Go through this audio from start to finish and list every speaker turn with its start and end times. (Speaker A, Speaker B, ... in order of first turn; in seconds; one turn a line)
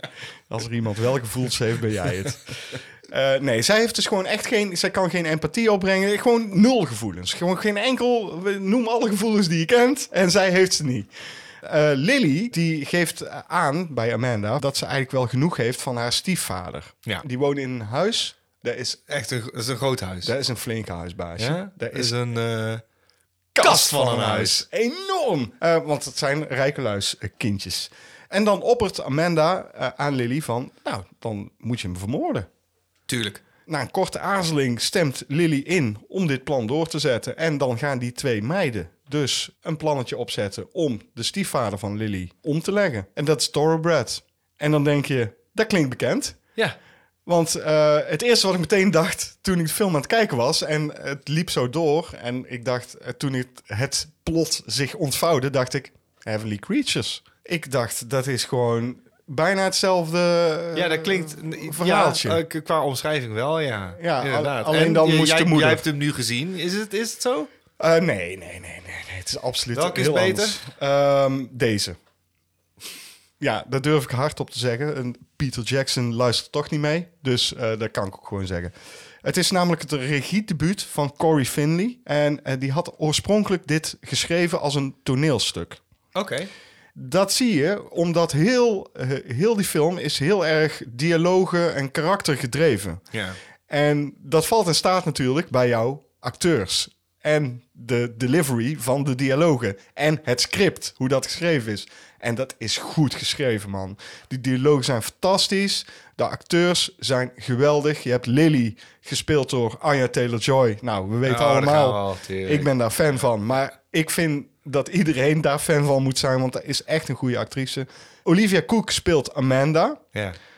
Speaker A: 0.5-11.1
Speaker A: 11.6-19.1
Speaker B: 19.1-20.3
Speaker A: 20.2-22.1
Speaker B: 21.4-22.8
Speaker A: 23.5-32.5
Speaker B: 23.6-24.6
Speaker B: 33.1-33.4
Speaker A: 33.7-46.4
Speaker A: 47.2-62.4
Speaker B: 60.7-67.5
Speaker A: 64.0-65.8
Speaker A: 67.8-72.0
Speaker B: 69.7-70.6
Speaker A: 73.4-78.7
Speaker A: 79.2-85.8
Speaker B: 86.1-86.5
Speaker A: 87.0-93.0
Speaker B: 93.1-93.4
Speaker A: 93.7-120.0
Speaker B: 111.2-112.7